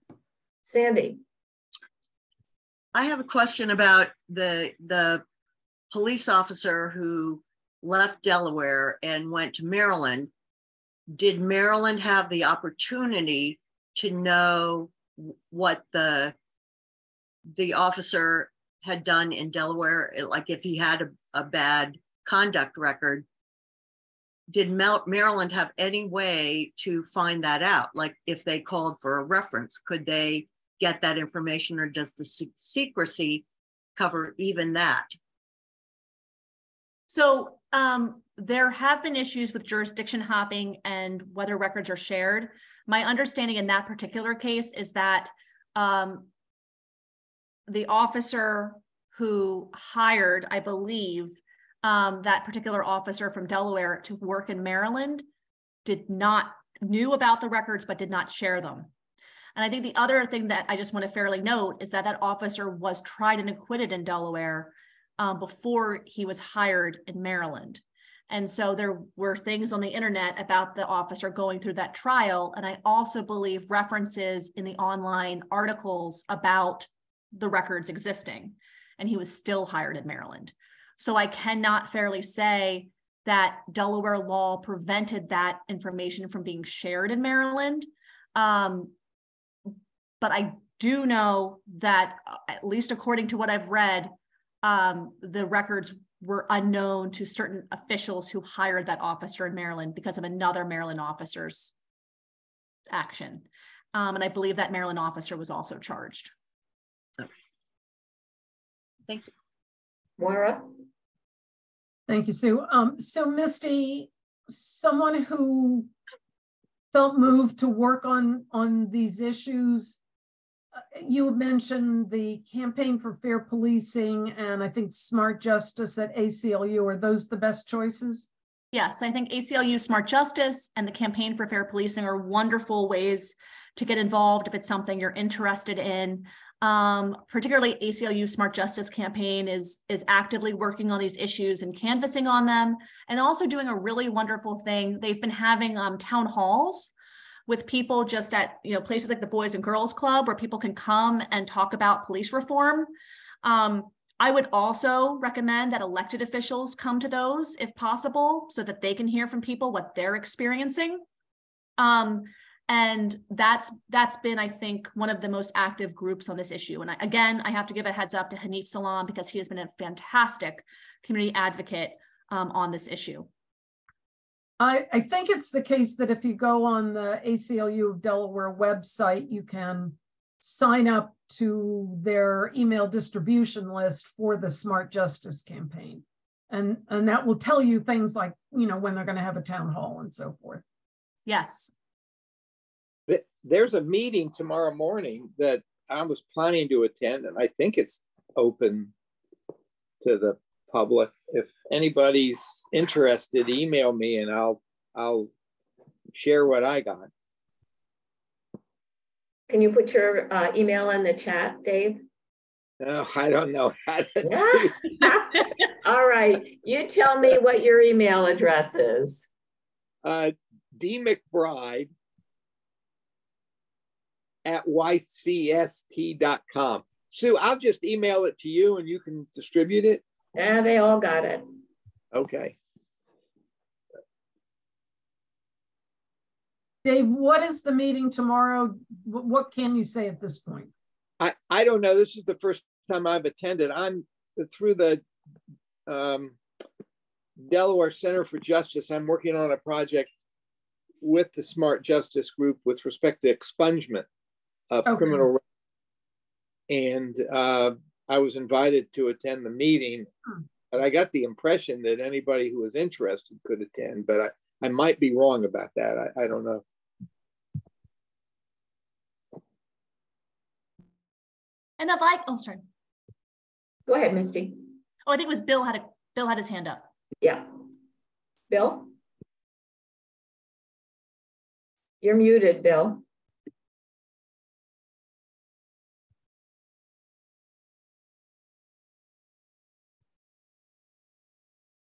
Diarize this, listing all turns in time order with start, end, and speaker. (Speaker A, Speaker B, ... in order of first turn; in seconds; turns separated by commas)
Speaker A: 0.6-1.2, Speaker B: 2.9-5.2, Speaker B: 5.9-10.3, Speaker B: 11.1-16.3, Speaker B: 17.5-23.2, Speaker B: 24.5-35.1, Speaker C: 37.1-46.3, Speaker C: 47.7-55.2, Speaker C: 55.8-58.9, Speaker C: 59.5-88.9, Speaker C: 90.2-101.7, Speaker C: 102.9-106.3, Speaker A: 110.2-110.8, Speaker D: 112.1-115.9, Speaker D: 116.9-120.0, Speaker D: 120.9-128.3, Speaker C: 128.7-146.9, Speaker C: 147.5-152.9, Speaker C: 153.4-161.0, Speaker C: 161.8-173.3, Speaker D: 174.6-190.6, Speaker C: 191.2-191.7, Speaker E: 193.1-198.9, Speaker E: 200.0-205.3, Speaker E: 206.1-207.1, Speaker A: 209.5-212.0, Speaker E: 212.8-214.7, Speaker A: 214.2-219.3, Speaker E: 220.0-221.9, Speaker E: 224.4-230.0, Speaker A: 230.3-231.5, Speaker E: 232.1-232.6, Speaker D: 236.8-240.7, Speaker E: 241.2-245.0, Speaker E: 245.9-246.4, Speaker E: 247.4-250.1, Speaker E: 251.0-254.1, Speaker E: 254.7-255.4, Speaker E: 256.7-260.1, Speaker E: 260.7-266.6, Speaker C: 271.8-272.6, Speaker A: 273.9-274.8, Speaker C: 275.1-276.9, Speaker A: 277.2-277.5, Speaker A: 278.5-278.9, Speaker A: 282.0-283.0